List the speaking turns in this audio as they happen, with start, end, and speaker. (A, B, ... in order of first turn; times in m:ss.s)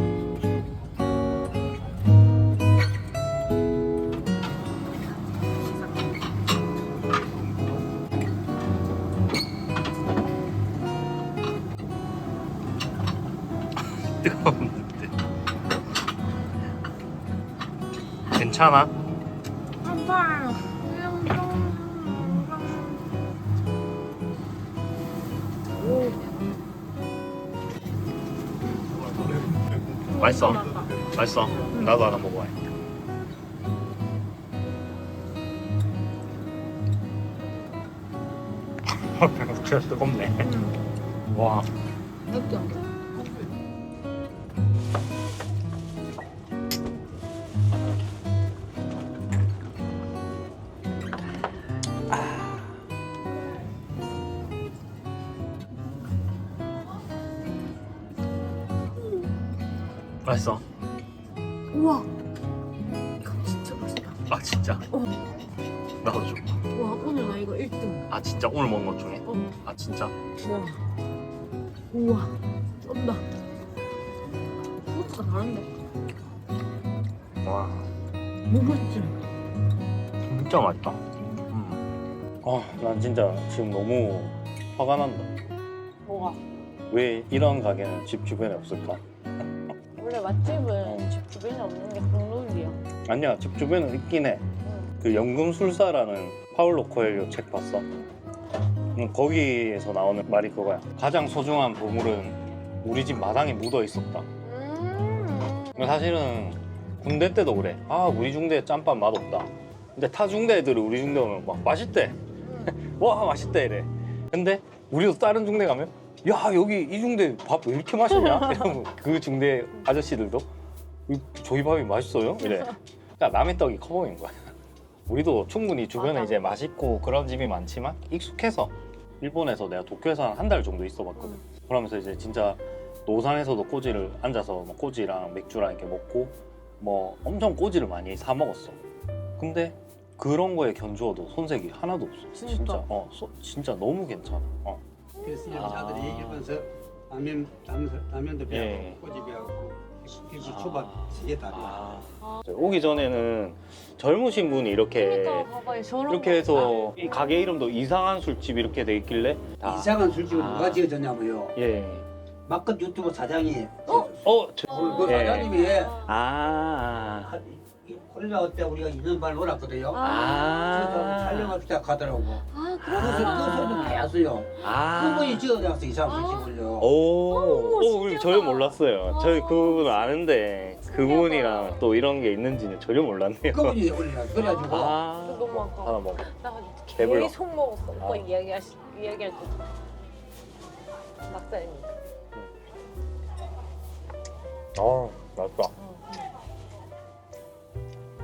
0:14.0-0:15.1 A
0:18.4-0:18.9 A
0:19.8-0:23.0 B
0:25.8-0:26.2 B
0:30.1-0:30.9 B
0:30.1-0:32.6 A
0:31.7-0:32.0 B
0:39.2-0:40.6 A
0:40.4-0:40.8 B
0:41.3-0:41.7 A
0:42.3-0:42.8 B
0:52.1-0:52.7 A
1:00.2-1:00.6 A
1:01.7-1:02.1 B
1:03.2-1:04.2 B
1:04.3-1:04.8 A
1:06.0-1:06.5 A
1:06.7-1:08.1 B
1:08.1-1:10.1 A
1:09.3-1:09.5 B
1:10.4-1:10.8 B
1:11.9-1:13.2 B
1:14.9-1:15.7 B
1:17.4-1:17.9 A
1:18.5-1:19.1 B
1:20.3-1:21.8 A
1:22.4-1:25.3 A
1:26.0-1:26.4 B
1:26.9-1:29.0 A
1:30.0-1:32.8 B
1:30.8-1:31.1 A
1:33.1-1:34.4 A
1:34.6-1:34.9 B
1:35.0-1:37.8 A
1:39.0-1:44.3 A
1:44.4-1:46.0 B
1:45.8-2:00.5 A
2:01.1-2:04.5 A
2:05.1-2:18.8 A
2:06.0-2:06.4 B
2:19.4-2:24.8 A
2:22.3-2:22.8 B
2:25.2-2:25.7 B
2:25.2-2:32.0 C
2:25.5-2:26.4 A
2:28.5-2:29.0 A
2:30.4-2:35.5 A
2:35.0-2:37.0 B
2:36.1-2:40.8 A
2:39.6-2:41.6 C
2:41.6-2:42.0 A
2:42.5-2:46.0 C
2:44.2-2:47.4 A
2:44.7-2:45.9 B
2:47.3-2:56.9 C
2:49.9-2:50.7 B
2:50.0-2:51.6 A
2:52.5-2:54.0 B
2:52.9-2:53.9 A
2:54.6-2:55.5 A
2:56.1-2:56.5 B
2:56.8-3:03.8 A
2:57.3-3:00.1 B
3:01.0-3:01.8 B
3:03.5-3:05.0 C
3:04.4-3:09.6 B
3:04.6-3:06.3 A
3:07.0-3:07.3 A
3:08.0-3:08.3 A
3:11.3-3:11.9 B
3:14.8-3:15.7 A